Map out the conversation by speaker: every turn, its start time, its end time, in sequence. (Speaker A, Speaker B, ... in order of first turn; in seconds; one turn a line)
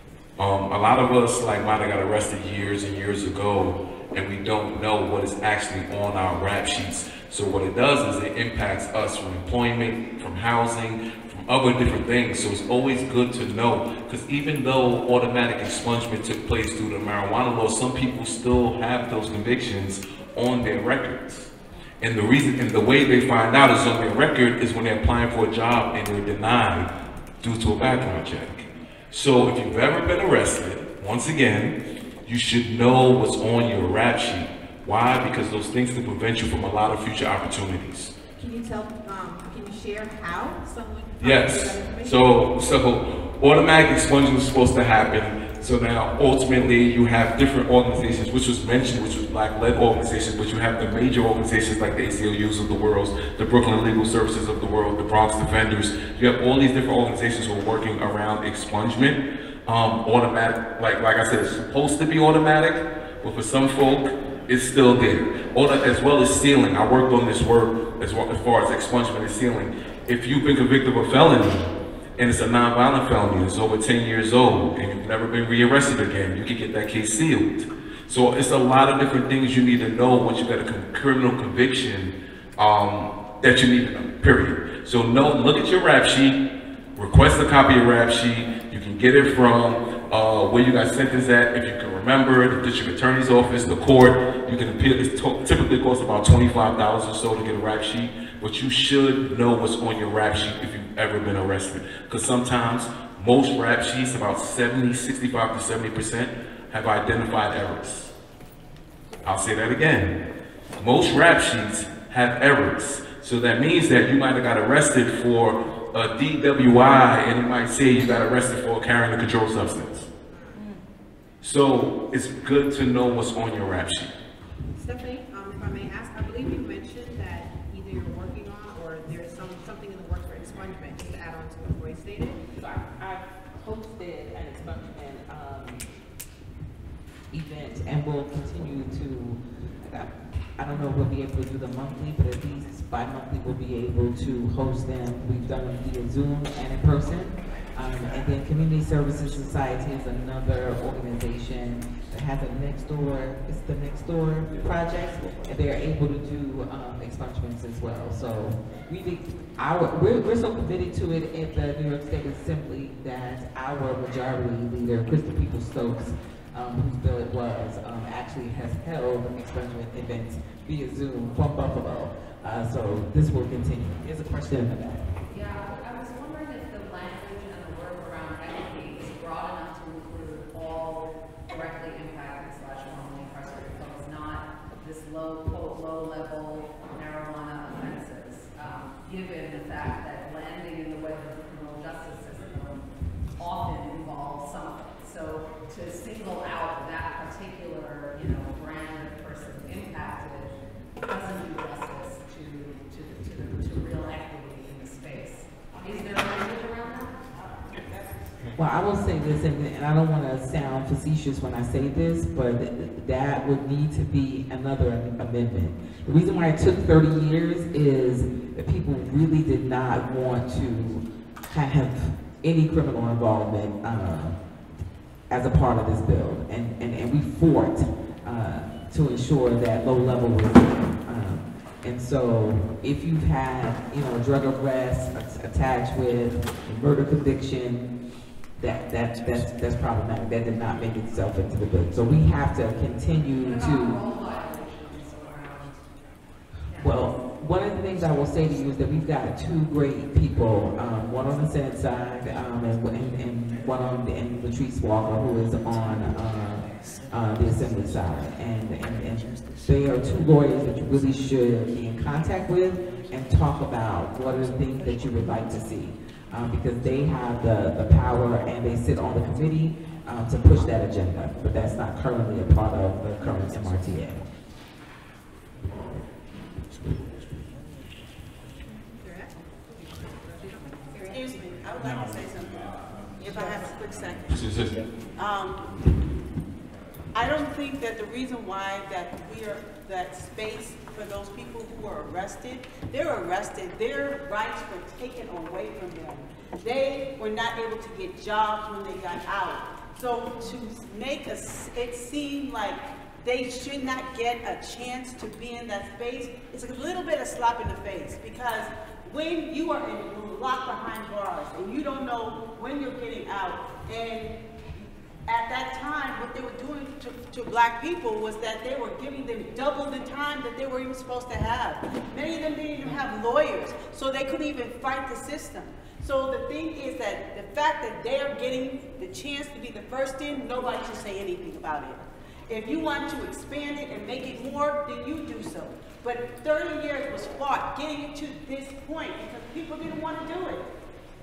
Speaker A: 0.4-31.7
Speaker A: 32.2-38.1
Speaker B: 38.4-42.2
Speaker A: 41.2-86.4
Speaker A: 87.0-108.1
Speaker A: 109.2-110.1
Speaker A: 110.8-120.1
Speaker B: 120.3-120.6
Speaker A: 121.4-124.1
Speaker B: 124.8-132.4
Speaker C: 132.6-135.9
Speaker C: 137.3-175.1
Speaker D: 175.3-192.8
Speaker D: 193.4-200.5
Speaker D: 201.0-207.2
Speaker C: 208.6-224.4
Speaker C: 225.3-237.9
Speaker C: 238.6-244.0
Speaker D: 243.4-245.9
Speaker C: 246.7-274.2
Speaker B: 278.7-281.6
Speaker E: 281.1-284.4
Speaker A: 284.3-284.8
Speaker E: 285.1-285.7
Speaker E: 287.1-340.6